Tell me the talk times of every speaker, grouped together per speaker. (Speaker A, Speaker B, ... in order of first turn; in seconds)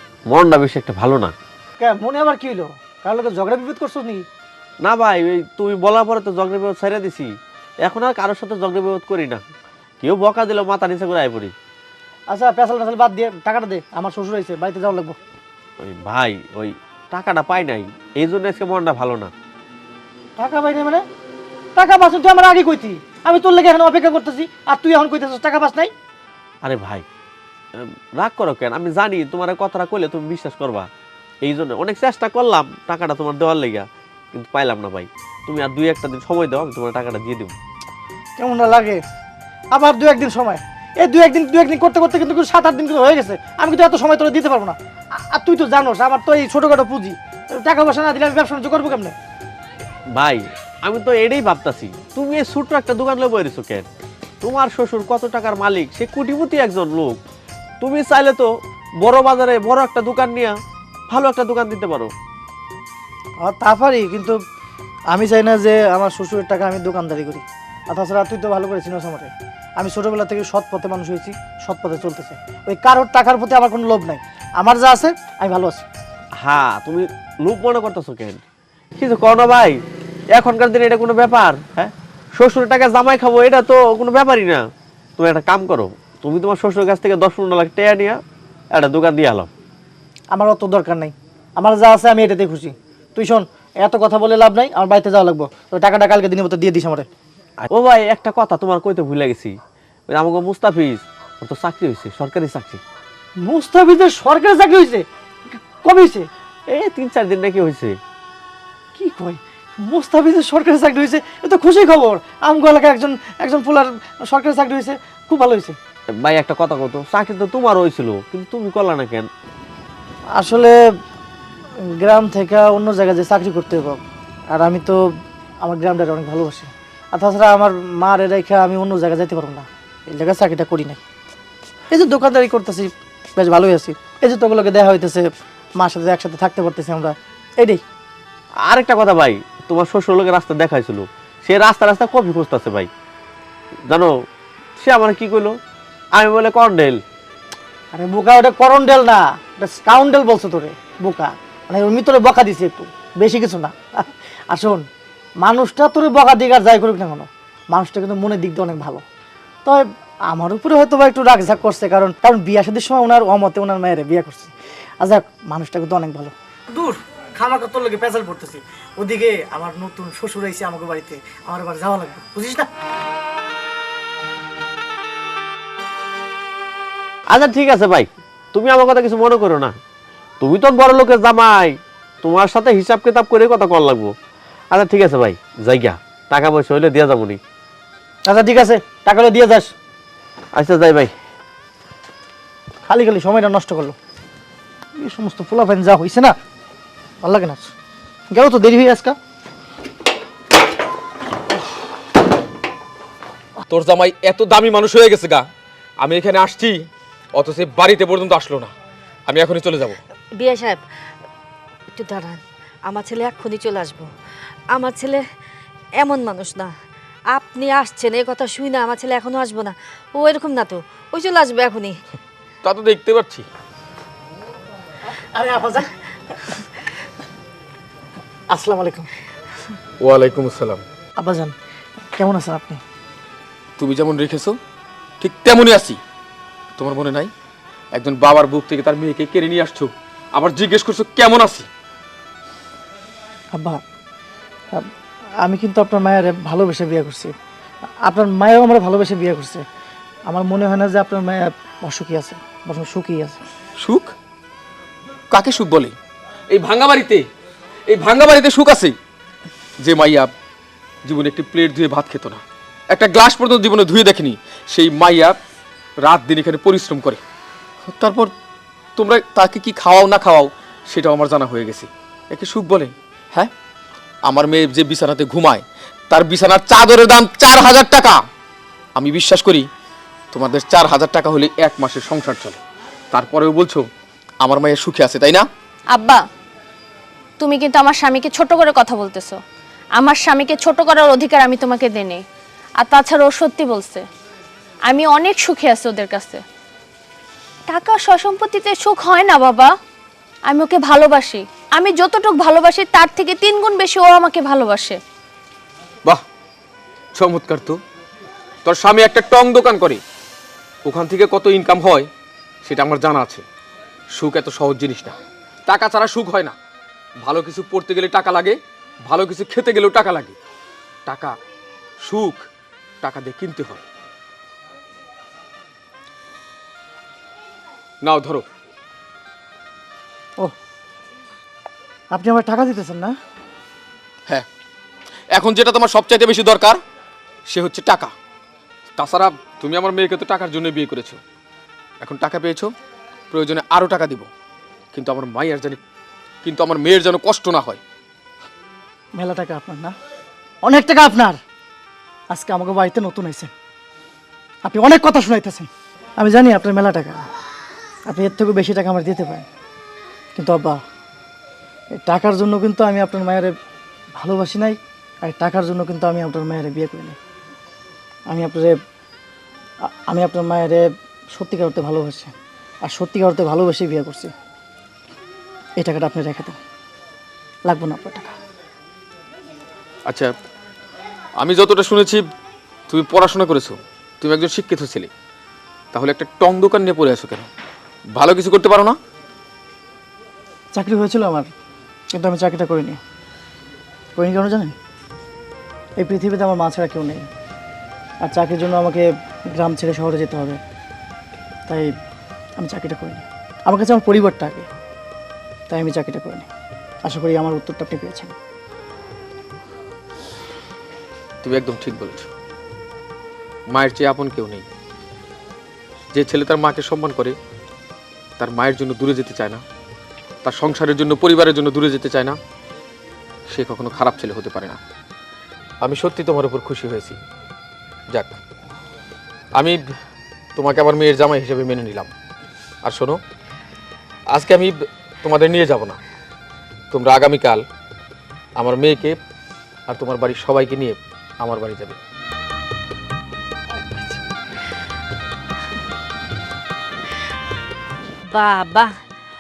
Speaker A: 0.3-1.3, 4.8-7.3, 7.8-9.4, 10.0-11.5, 15.8-19.3, 26.6-27.0, 27.7-30.9, 31.4-37.5, 50.1-53.9, 54.4-57.2, 57.8-60.6, 61.1-62.1, 76.4-78.4, 79.0-79.8, 80.3-84.6, 85.2-88.2, 88.7-89.5, 97.7-99.5, 100.1-102.8, 106.7-108.0, 116.2-119.3, 138.6-142.9, 143.9-144.1, 144.8-145.6, 146.2-147.0, 177.3-179.7, 180.4-184.1, 184.7-187.4, 190.6-191.1
Speaker B: 1.8-4.2, 12.3-15.2, 20.4-21.1, 21.8-25.9, 38.4-39.0, 39.7-49.2, 63.4-64.4, 65.1-75.9, 90.3-97.1, 103.4-106.3, 109.0-115.8, 120.3-120.8, 122.0-125.0, 125.6-131.0, 131.9-135.3, 135.8-137.8, 147.9-154.9, 155.4-159.0, 159.7-172.7, 188.3-189.7, 192.9-194.0, 195.0-196.4, 197.2-197.7, 198.3-199.2, 225.3-226.6, 228.5-229.1, 231.2-231.5, 232.2-232.8, 243.5-243.8, 245.4-247.3, 248.1-249.7, 250.3-253.4, 332.1-333.1, 349.1-349.9, 350.6-351.4, 352.3-353.5, 354.6-357.3, 358.1-359.5, 360.4-360.8, 361.9-363.6, 364.2-367.2, 368.3-368.8, 369.9-374.3, 375.8-376.6, 377.7-378.4, 390.7-391.5, 392.1-393.0, 394.2-394.8, 396.0-397.3, 398.2-400.6, 401.7-401.9, 402.6-404.7, 405.7-406.5, 407.1-408.4
Speaker C: 203.7-205.5, 206.0-206.8, 207.3-208.7, 209.3-210.0, 222.6-223.5, 230.0-230.8, 233.8-234.6, 235.2-236.0, 236.8-237.3, 237.9-241.7, 253.8-254.1, 255.3-255.9, 256.5-257.2, 257.9-258.9, 259.8-260.3, 261.1-265.4, 266.0-267.2, 267.9-268.3, 269.0-273.5, 274.2-278.2, 279.0-279.7, 280.3-282.6, 283.1-283.9, 284.4-285.5, 307.1-307.8, 308.6-310.0, 310.9-312.1, 312.6-313.4, 314.1-316.6, 317.2-320.4, 321.1-321.4, 322.0-322.5, 323.0-323.8, 328.0-328.5, 335.3-336.8, 337.5-338.1, 339.0-341.2, 342.0-342.7, 343.3-344.3, 344.9-345.8, 346.4-347.8, 381.4-382.3, 382.9-385.1, 385.9-387.5, 388.2-389.0, 411.4-412.3, 413.7-414.6, 416.1-417.4, 418.4-419.6, 420.4-422.4, 423.5-424.8, 425.8-427.2, 428.1-428.4, 429.6-429.8, 430.6-432.1, 432.8-433.2, 434.3-436.0, 436.9-437.6, 438.6-439.2, 439.9-442.0
Speaker D: 210.3-210.8, 211.9-214.1, 214.7-215.3, 216.0-216.7, 217.3-222.0, 448.3-448.9
Speaker E: 285.9-286.2, 287.4-289.4, 290.0-292.2, 292.8-294.1, 294.9-296.4, 297.7-299.7, 300.5-305.0